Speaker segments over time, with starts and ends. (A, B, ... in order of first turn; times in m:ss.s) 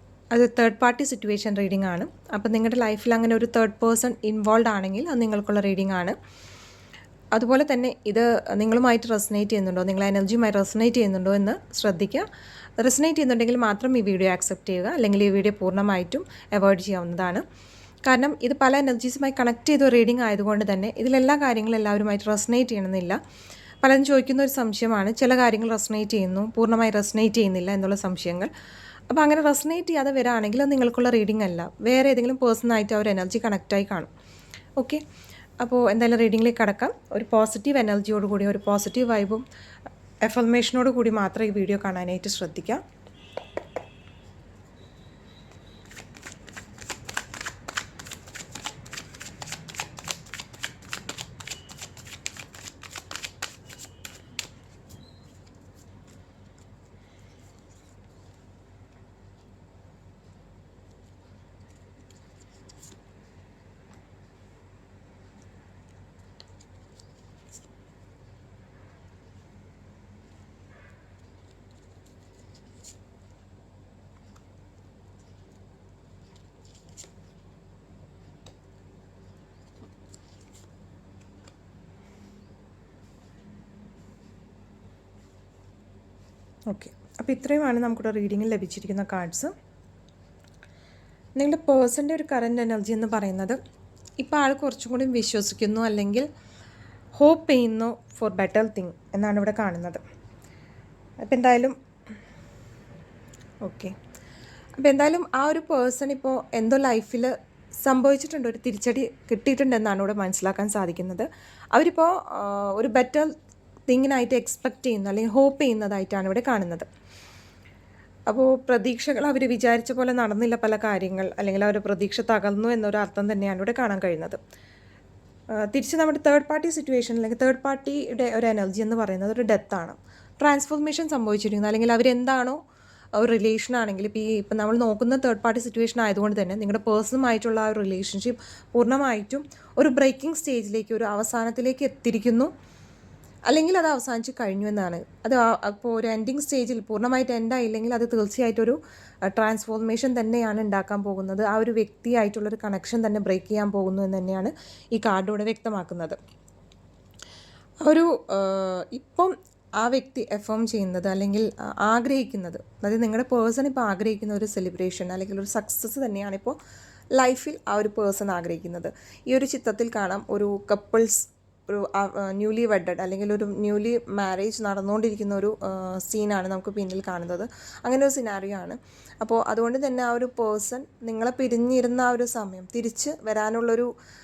0:00.3-0:06.2 A
0:07.3-0:17.4 A
0:18.0-0:23.2 A
0:23.8-0:28.5 A
0:29.1-0:34.1 A
0:34.8-0:35.0 A
0:35.6-0:39.4 A
0:40.2-0:42.8 A
1:26.7-1:29.5 A
1:31.4-1:33.6 A
1:34.2-1:36.3 A
1:37.2-1:40.0 A
1:41.2-1:41.8 A
1:43.6-1:44.0 A
1:44.8-1:47.3 A
1:47.8-1:53.3 A
1:53.9-1:56.9 A
1:58.3-2:04.4 A
2:05.5-2:12.6 A
2:13.1-2:22.5 A
2:23.5-2:36.2 A
2:37.8-2:46.6 A
2:47.1-3:03.9 A